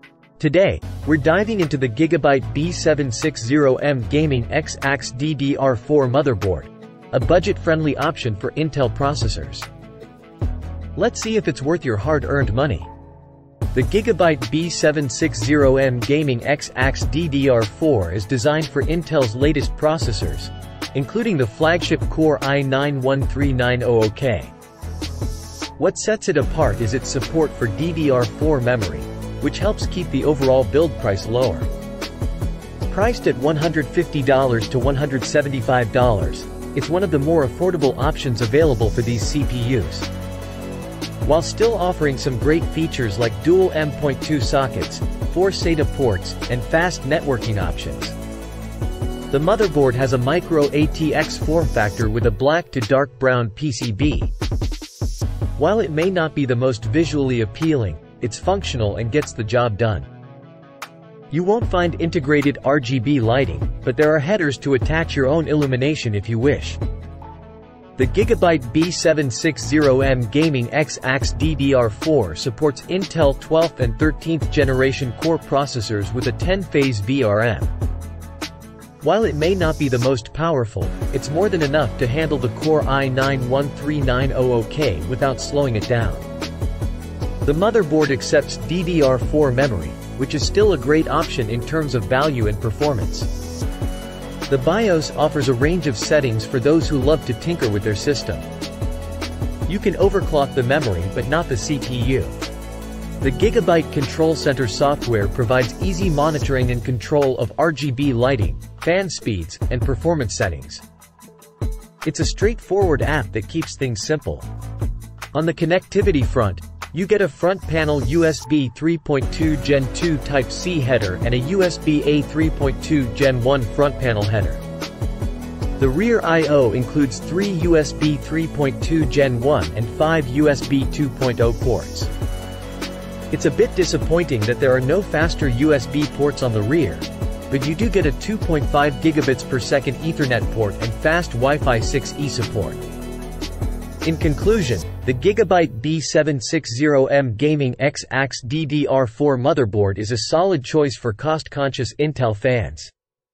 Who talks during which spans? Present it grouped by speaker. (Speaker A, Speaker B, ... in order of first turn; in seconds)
Speaker A: 0.4-9.7, 11.0-12.9, 13.7-24.5, 25.8-31.7, 32.9-40.1, 41.2-48.2, 49.3-54.3, 55.5-60.1, 61.3-66.8, 68.0-77.7, 79.0-86.3, 87.4-93.3, 94.5-98.5, 99.7-102.3, 103.2-110.8, 112.0-114.5, 115.3-124.6, 125.8-132.1, 133.3-142.8, 144.0-152.9